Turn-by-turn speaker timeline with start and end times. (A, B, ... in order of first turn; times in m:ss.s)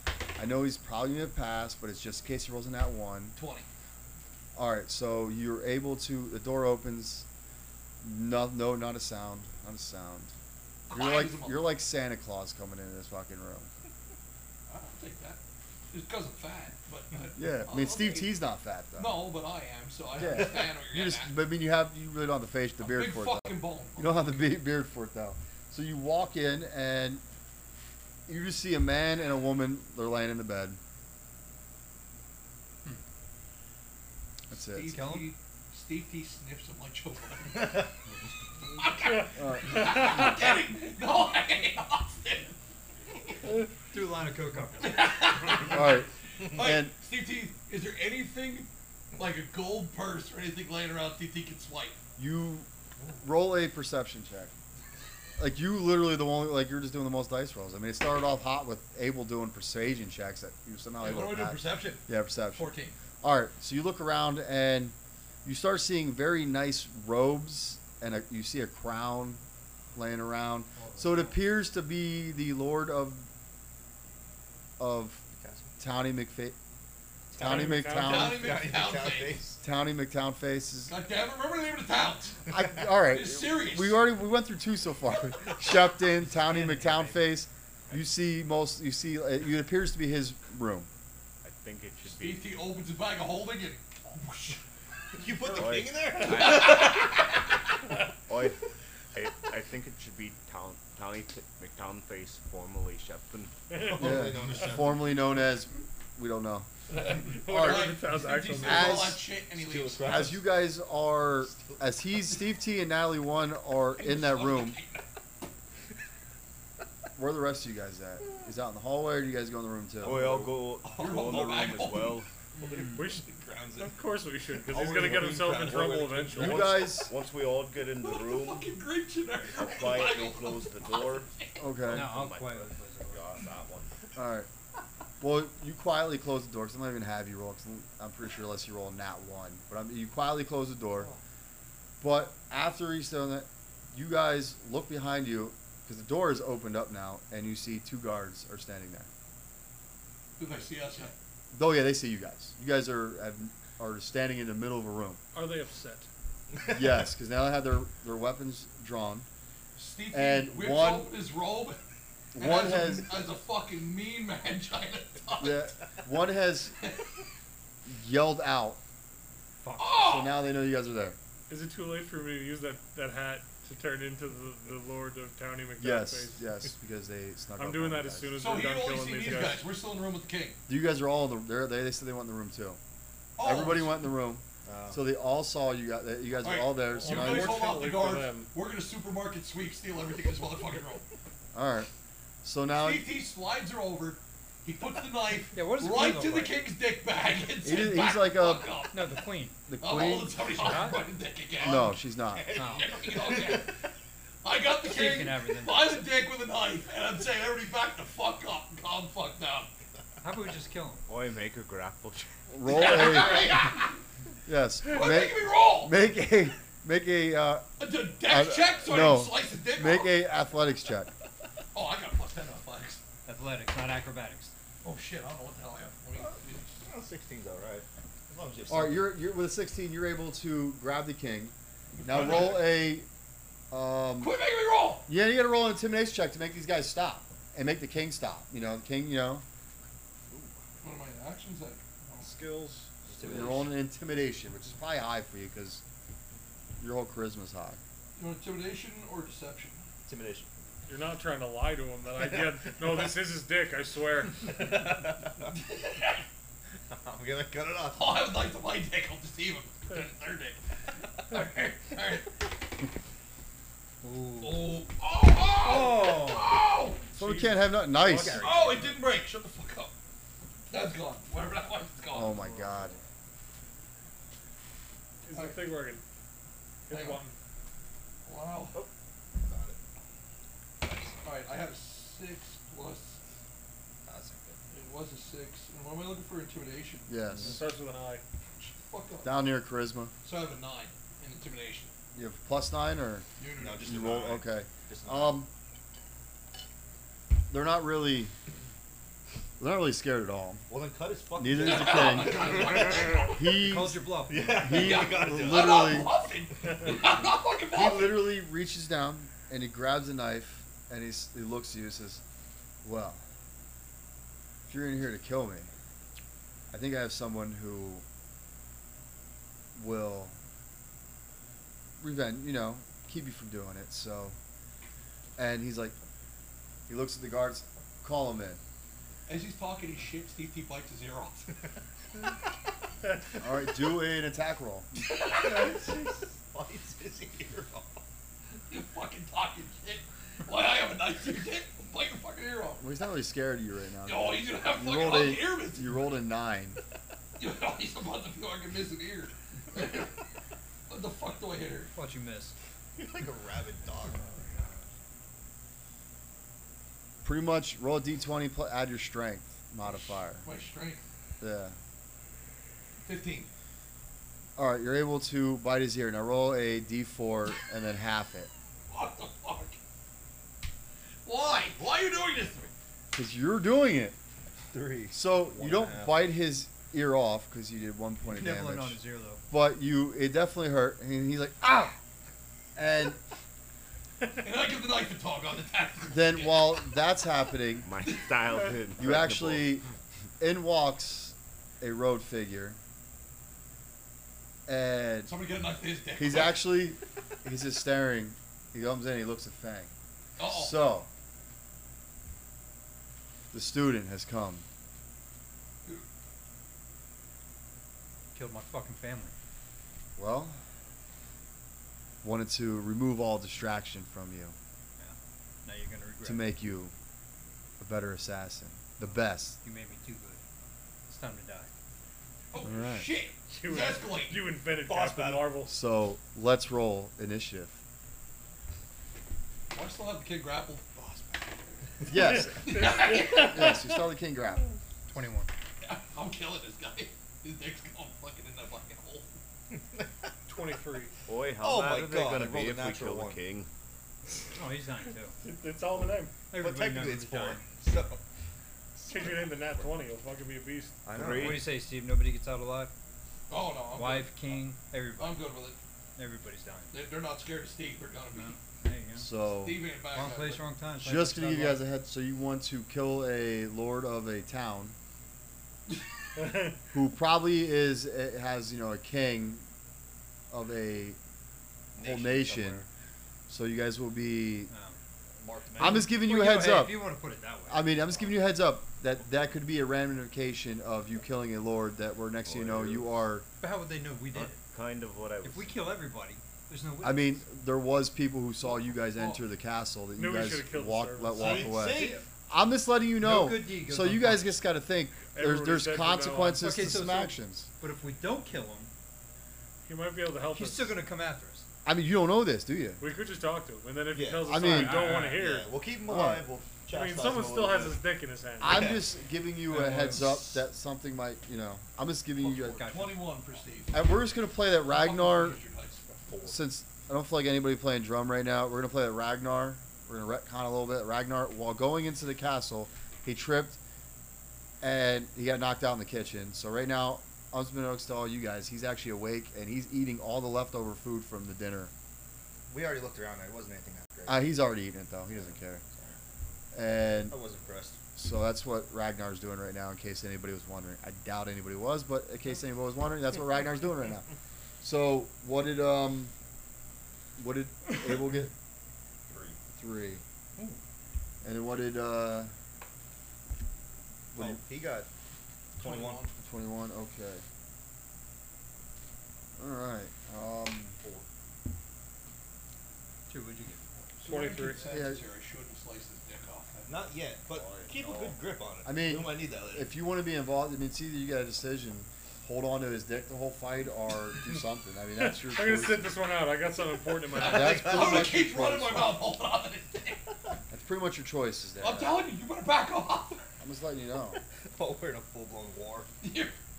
0:00.4-0:03.4 A
0:03.4-0:03.7 B
0:04.5-0:07.2 A
0:08.0-0:10.3 A
0:10.9-0:11.7 B
0:10.9-0:13.7 A
0:14.7-0:15.4 B
0:15.9-0:18.3 B
0:17.4-0:19.3 A
0:19.0-0:21.4 B
0:20.1-0:27.2 A
0:22.8-0:24.4 B
0:28.3-0:30.8 A
0:34.5-0:35.0 A
0:34.5-0:37.9 B
0:34.9-0:35.3 C
0:38.7-0:42.6 B
0:39.1-0:40.1 D
0:39.3-0:40.0 A
0:43.9-0:45.4 C
0:44.8-0:52.0 B
0:45.7-0:47.0 A
0:52.2-0:52.7 A
0:53.2-0:54.5 A
0:55.4-1:09.4 A
1:01.0-1:03.0 B
1:09.9-1:13.2 A
1:10.7-1:11.3 C
1:14.8-1:15.2 A
1:15.3-1:15.7 E
1:15.8-1:16.6 A
1:17.3-1:18.7 A
1:17.3-1:19.6 E
1:17.4-1:18.4 D
1:17.8-1:19.6 B
1:19.6-1:20.9 A
1:20.9-1:24.0 B
1:22.5-1:30.9 A
1:26.4-1:27.2 C
1:31.4-1:32.4 F
1:32.0-1:34.6 B
1:35.1-1:36.8 E
1:35.2-1:37.4 B
1:35.5-1:37.4 F
1:38.1-1:38.6 F
1:39.1-1:43.6 F
1:43.7-1:44.3 D
1:43.7-1:45.3 E
1:44.0-1:46.7 A
1:46.9-1:49.1 D
1:46.9-1:50.4 B
1:47.4-1:48.0 A
1:48.6-1:49.2 A
1:49.5-1:50.4 E
1:50.0-1:54.8 A
1:51.5-1:51.8 E
1:54.0-1:55.0 B
1:57.1-2:00.3 A
2:00.0-2:00.9 E
2:00.0-2:02.3 F
2:00.8-2:03.5 B
2:03.0-2:03.2 D
2:03.4-2:03.9 E
2:03.8-2:06.6 D
2:04.6-2:06.8 E
2:06.3-2:08.7 F
2:06.3-2:07.1 A
2:08.0-2:11.8 B
2:09.5-2:11.3 F
2:11.6-2:12.1 A
2:11.9-2:13.9 F
2:11.9-2:13.3 C
2:14.1-2:14.5 A
2:15.2-2:21.1 A
2:22.0-2:29.1 A
2:30.4-2:31.1 B
2:31.5-2:35.2 A
2:35.3-2:36.1 D
2:36.7-2:39.3 A
2:39.8-2:41.8 B
2:40.1-2:41.1 A
2:42.3-2:43.1 A
2:42.4-2:45.7 B
2:45.4-2:46.7 A
2:47.8-2:48.8 A
2:49.6-2:50.0 C
2:49.8-2:50.4 B
2:50.0-2:51.2 A
2:51.5-2:56.5 D
2:55.8-2:58.3 A
2:57.6-2:59.7 D
2:58.3-3:00.6 B
3:00.7-3:02.8 A
3:03.4-3:04.1 B
3:03.4-3:07.6 A
3:04.6-3:05.0 E
3:06.4-3:11.0 B
3:07.0-3:08.5 D
3:11.5-3:11.9 A
3:12.4-3:13.1 A
3:12.7-3:21.9 B
3:15.5-3:16.6 C
3:17.6-3:18.7 A
3:18.9-3:19.7 C
3:19.7-3:20.5 A
3:20.5-3:21.1 C
3:21.6-3:23.7 E
3:21.6-3:22.5 A
3:22.5-3:22.9 C
3:22.6-3:23.8 B
3:24.4-3:29.7 B
3:24.8-3:26.0 C
3:30.2-3:31.0 C
3:31.1-3:32.3 F
3:32.5-3:33.5 A
3:32.6-3:34.0 B
3:34.4-3:37.6 A
3:34.8-3:36.0 B
3:37.8-3:40.2 B
3:38.2-3:41.1 A
3:41.7-3:43.0 B
3:43.2-3:44.5 C
3:44.8-3:46.7 B
3:46.8-3:49.1 E
3:48.7-3:53.1 A
3:52.0-3:52.7 B
3:53.7-3:54.3 A
3:54.2-3:55.1 B
3:55.0-3:59.4 A
4:00.3-4:00.5 E
4:00.8-4:02.3 B
4:03.0-4:03.7 E
4:03.2-4:05.8 A
4:06.8-4:07.8 A
4:08.2-4:09.8 B
4:10.0-4:10.5 E
4:10.9-4:14.6 D
4:14.5-4:15.6 E
4:15.5-4:16.2 B
4:16.9-4:18.1 E
4:17.9-4:20.6 B
4:21.2-4:22.5 B
4:24.0-4:24.8 C
4:24.4-4:27.2 B
4:25.6-4:26.6 C
4:27.2-4:28.6 A
4:27.2-4:28.2 D
4:28.2-4:28.9 E
4:28.4-4:29.9 B
4:30.7-4:32.4 B
4:32.1-4:32.9 A
4:35.2-4:36.0 D
4:35.3-4:35.7 B
4:36.9-4:37.3 D
4:36.9-4:37.3 B
4:38.2-4:38.8 B
4:38.7-4:39.8 E
4:41.2-4:43.2 B
4:44.0-4:44.6 E
4:44.7-4:47.1 B
4:47.1-4:47.6 A
4:47.4-4:48.2 D
4:48.6-4:49.4 B
4:49.2-4:50.1 A
4:50.2-4:51.9 B
4:52.1-4:53.2 A
4:53.4-4:54.3 B
4:53.6-4:55.4 E
4:53.8-4:55.5 A
4:57.5-4:58.3 A
4:59.6-5:00.6 A
5:00.7-5:03.2 E
5:01.4-5:06.1 A
5:01.6-5:03.6 B
5:03.5-5:04.6 C
5:04.3-5:05.8 E
5:04.6-5:08.3 B
5:07.7-5:12.2 A
5:12.8-5:13.2 A
5:14.7-5:15.7 A
5:16.7-5:18.0 A
5:19.7-5:20.4 A
5:22.0-5:24.4 A
5:25.4-5:25.9 A
5:26.9-5:28.6 A
5:29.3-5:31.5 B
5:33.4-5:34.9 A
5:35.0-5:35.8 B
5:35.2-5:38.0 E
5:38.7-5:42.8 B
5:42.8-5:46.8 A
5:44.0-5:46.0 B
5:47.4-5:50.2 B
5:50.9-5:51.9 B
5:51.9-5:52.5 C
5:53.0-5:54.2 E
5:57.2-6:00.5 A
6:00.4-6:01.0 B
6:01.4-6:01.8 A
6:03.0-6:03.5 B
6:04.6-6:08.5 A
6:08.9-6:09.8 B
6:11.2-6:12.7 B
6:13.1-6:14.2 A
6:14.7-6:16.3 E
6:15.1-6:19.0 A
6:18.3-6:19.4 C
6:19.5-6:22.0 A
6:22.8-6:23.2 A
6:24.2-6:26.9 B
6:26.1-6:27.9 A
6:27.8-6:29.8 F
6:29.0-6:29.8 A
6:30.4-6:32.8 A
6:34.7-6:35.3 A
6:35.2-6:36.7 B
6:36.2-6:41.1 A
6:40.4-6:40.9 B
6:43.5-6:44.6 A
6:48.3-6:49.3 C
6:50.2-6:50.6 A
6:52.2-6:54.5 A
6:55.0-6:56.5 C
6:56.2-6:56.9 A
6:57.8-6:59.6 A
6:59.6-7:00.4 C
7:01.1-7:01.7 C
7:02.5-7:04.5 B
7:02.6-7:03.1 A
7:03.5-7:05.8 D
7:04.8-7:05.5 E
7:05.7-7:07.8 A
7:09.7-7:11.0 B
7:11.0-7:11.4 E
7:12.1-7:14.7 A
7:12.3-7:13.8 D
7:12.5-7:13.8 B
7:15.1-7:15.5 C
7:15.8-7:19.3 B
7:19.7-7:20.1 E
7:20.5-7:21.1 D
7:21.3-7:23.7 F
7:21.6-7:23.4 E
7:24.5-7:25.3 C
7:25.4-7:26.3 D
7:26.5-7:27.7 C
7:26.5-7:28.2 E
7:29.0-7:29.5 E
7:29.1-7:31.0 D
7:31.0-7:31.7 E
7:31.1-7:31.7 F
7:31.2-7:32.9 C
7:33.5-7:34.4 B
7:33.9-7:35.5 C
7:35.2-7:35.8 B
7:36.2-7:36.9 C
7:36.9-7:38.6 B
7:38.3-7:39.3 C
7:39.2-7:39.8 A
7:39.4-7:40.8 B
7:40.1-7:41.8 C
7:41.0-7:45.0 A
7:46.4-7:46.7 D
7:46.9-7:49.6 A
7:50.5-7:51.2 A
7:52.0-7:52.9 E
7:52.0-7:52.8 A
7:53.5-7:54.7 A
7:54.7-7:55.0 C
7:55.4-7:56.1 E
7:55.8-7:57.0 A
7:55.8-7:58.0 C
7:57.7-8:03.4 A
8:02.4-8:03.1 F
8:03.6-8:04.6 C
8:04.3-8:05.7 F
8:05.4-8:07.4 C
8:07.0-8:17.7 A
8:09.0-8:09.4 B
8:10.2-8:11.7 D
8:11.4-8:12.2 E
8:13.2-8:14.6 C
8:15.3-8:16.7 D
8:16.6-8:18.9 C
8:19.8-8:21.0 D
8:20.5-8:21.6 C
8:21.8-8:23.0 A
8:23.0-8:25.7 D
8:24.1-8:28.0 E
8:24.4-8:25.1 A
8:24.9-8:25.4 C
8:26.0-8:26.5 A
8:26.9-8:28.9 D
8:28.6-8:32.8 A
8:28.6-8:29.0 E
8:29.7-8:30.6 C
8:32.4-8:34.1 B
8:32.6-8:33.3 C
8:33.9-8:35.6 A
8:34.9-8:36.1 B
8:36.1-8:36.6 E
8:36.4-8:43.8 A
8:44.8-8:51.9 A
8:52.7-8:54.4 E
8:54.2-8:55.8 A
8:55.3-8:56.2 E
8:56.7-8:57.4 A
8:57.3-8:58.0 E
8:58.2-9:04.3 A
9:04.8-9:06.3 A
9:07.4-9:08.5 A
9:09.3-9:09.6 E
9:09.7-9:10.2 A
9:11.4-9:12.5 A
9:14.3-9:14.6 A
9:14.3-9:15.1 E
9:15.8-9:16.2 E
9:15.8-9:16.4 B
9:16.4-9:17.4 A
9:19.6-9:21.0 A
9:21.0-9:21.2 E
9:23.3-9:24.0 C
9:24.2-9:26.9 B
9:24.2-9:24.8 D
9:24.8-9:25.2 A
9:26.9-9:29.9 E
9:27.5-9:28.4 F
9:28.8-9:36.1 A
9:35.2-9:37.8 D
9:37.3-9:40.3 B
9:37.4-9:39.2 A
9:37.5-9:38.4 E
9:40.7-9:42.2 A
9:41.8-9:43.4 B
9:43.6-9:44.4 A
9:44.6-9:46.1 E
9:46.2-9:46.6 B